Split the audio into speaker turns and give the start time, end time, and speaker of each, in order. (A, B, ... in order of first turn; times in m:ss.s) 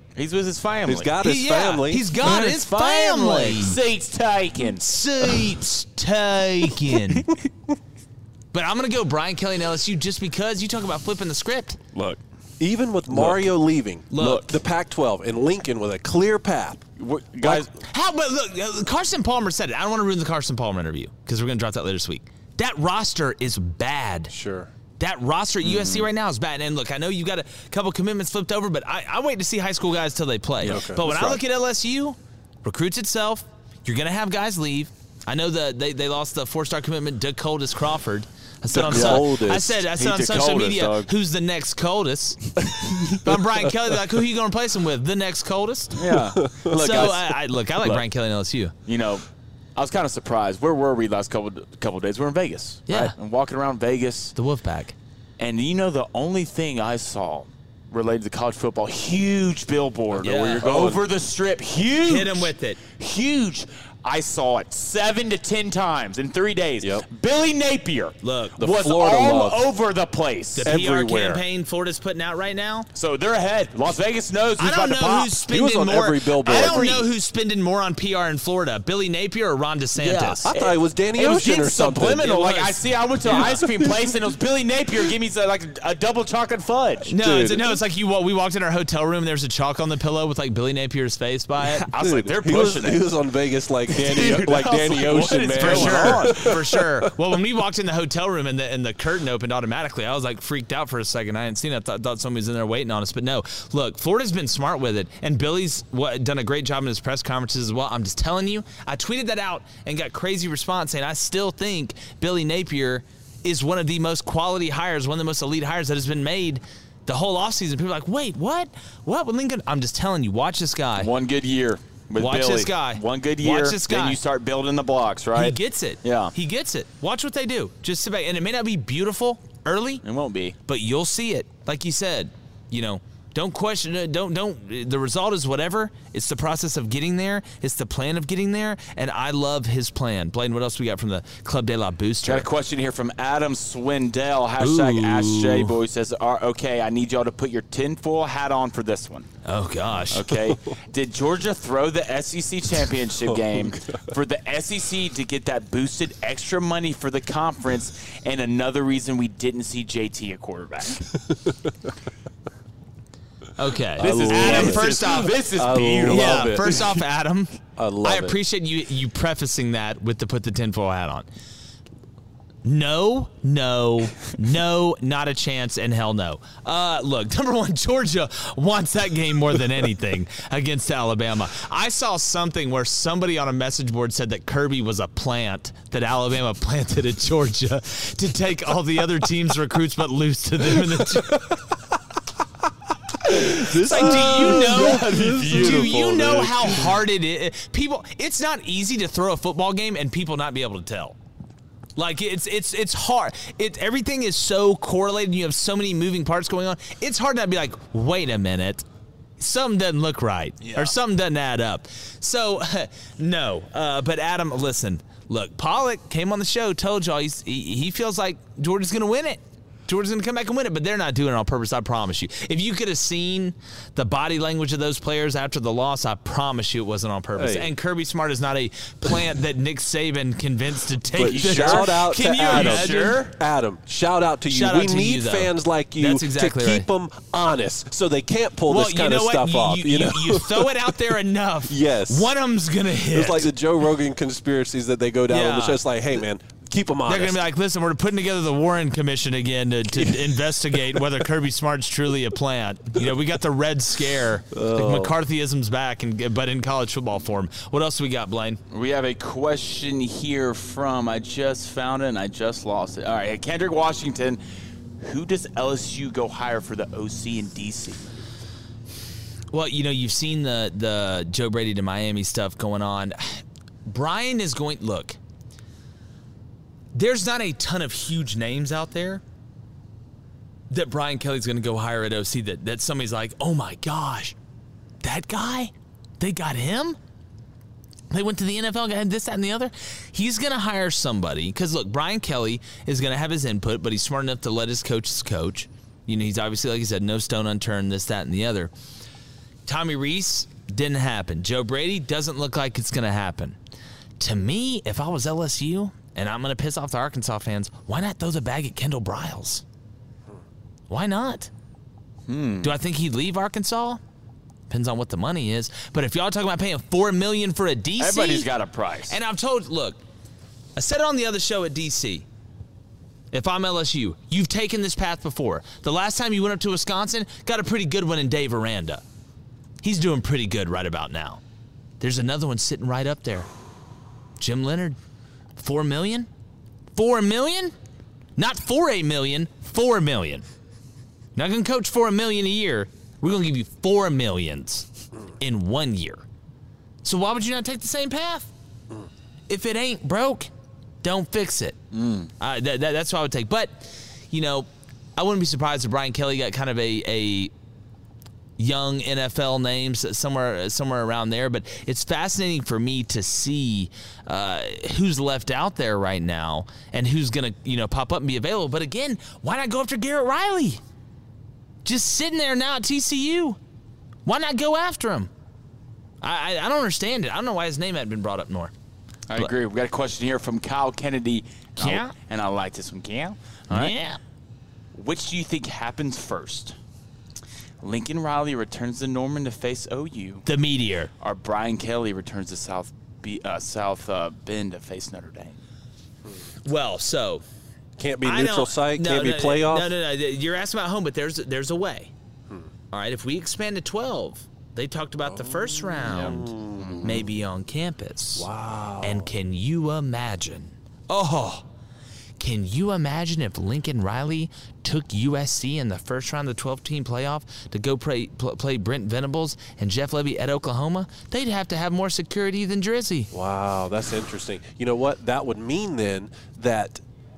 0:00.2-0:01.1 A
0:00.9-0:02.0 B
0:01.2-0:03.8 C
0:02.2-0:05.4 A
0:04.8-0:07.2 C
0:08.5-0:11.8 C
0:12.0-0:16.9 B
0:13.1-0:13.4 A
0:14.1-0:14.5 C
0:17.0-0:17.7 A
0:17.4-0:17.6 B
0:17.8-0:24.3 C
0:24.3-0:24.7 B
0:25.0-0:42.4 C
0:25.6-0:26.1 A
0:30.6-0:31.4 B
0:38.7-0:39.8 B
0:38.8-0:39.3 A
0:39.9-0:41.1 A
0:42.8-0:43.2 A
0:43.2-0:46.0 C
0:46.0-0:48.1 A
0:46.3-0:47.1 B
0:46.7-0:48.7 C
0:48.9-0:54.4 A
0:52.9-0:53.2 C
0:54.4-0:55.0 C
0:55.4-1:11.4 A
1:00.2-1:01.0 B
1:00.2-1:00.6 C
1:02.1-1:02.8 C
1:08.2-1:08.6 C
1:08.6-1:09.6 B
1:10.6-1:12.9 C
1:10.6-1:11.3 B
1:12.9-1:15.4 A
1:14.6-1:20.5 C
1:15.5-1:17.0 B
1:16.4-1:17.0 A
1:20.0-1:27.2 A
1:20.4-1:22.3 B
1:22.2-1:23.6 C
1:23.2-1:24.1 B
1:27.1-1:31.9 C
1:27.2-1:27.8 B
1:31.9-1:33.1 A
1:32.0-1:37.1 B
1:33.9-1:36.6 A
1:35.1-2:01.1 C
2:01.0-2:06.3 A
2:02.2-2:04.2 C
2:05.4-2:10.0 C
2:10.0-2:10.6 A
2:10.7-2:22.5 C
2:22.2-2:29.3 A
2:24.6-2:25.7 C
2:29.4-2:30.3 C
2:30.1-2:41.1 A
2:33.3-2:34.0 B
2:43.6-2:45.3 C
2:44.0-2:46.8 A
2:44.0-2:47.0 B
2:46.0-2:51.3 C
2:47.8-2:48.4 B
2:52.6-3:11.4 C
3:11.2-3:11.6 B
3:13.3-3:17.0 B
3:13.8-3:21.2 C
3:13.9-3:16.4 A
3:22.0-3:28.8 C
3:29.4-3:53.2 C
3:30.6-3:30.9 A
3:47.4-3:47.7 B
3:51.1-4:00.9 B
3:51.3-3:53.4 A
3:54.5-3:56.9 C
3:58.7-4:03.5 C
4:01.7-4:02.3 B
4:03.1-4:07.4 B
4:05.3-4:05.8 C
4:07.1-4:18.6 C
4:14.5-4:15.2 B
4:18.7-4:24.4 A
4:25.0-4:28.1 A
4:29.5-4:35.2 C
4:36.9-4:39.2 C
4:40.7-4:44.4 C
4:45.0-4:47.0 C
4:48.1-4:58.7 C
4:59.7-5:03.6 C
5:04.2-5:09.6 C
5:10.9-5:11.5 C
5:12.3-5:12.7 A
5:12.6-5:14.0 C
5:14.7-5:18.5 C
5:18.0-5:19.2 A
5:19.1-5:20.0 C
5:20.8-5:22.2 C
5:23.3-5:29.0 C
5:29.8-5:31.4 C
5:32.0-5:33.5 C
5:34.4-5:35.0 C
5:35.6-5:36.3 C
5:37.0-5:37.8 C
5:38.4-5:40.4 C
5:41.4-5:44.9 C
5:45.4-5:46.2 C
5:47.0-5:48.5 C
5:49.5-5:50.5 C
5:51.0-5:51.8 C
5:51.9-5:52.3 A
5:52.4-5:57.5 C
5:58.6-6:10.8 C
6:11.8-6:13.6 C
6:14.3-6:15.3 C
6:16.2-6:18.7 C
6:19.3-6:23.9 A
6:21.8-6:22.1 C
6:23.7-6:24.2 C
6:25.0-6:26.8 A
6:27.8-6:30.5 A
6:30.5-6:31.1 C
6:31.2-6:35.6 A
6:36.6-6:37.4 C
6:38.0-6:39.9 B
6:38.2-6:42.1 C
6:42.9-6:46.5 C
6:45.3-6:47.2 B
6:46.8-6:47.2 A
6:47.0-6:48.5 C
6:48.4-6:49.3 B
6:49.0-6:51.6 C
6:52.4-7:03.3 C
7:03.3-7:07.0 B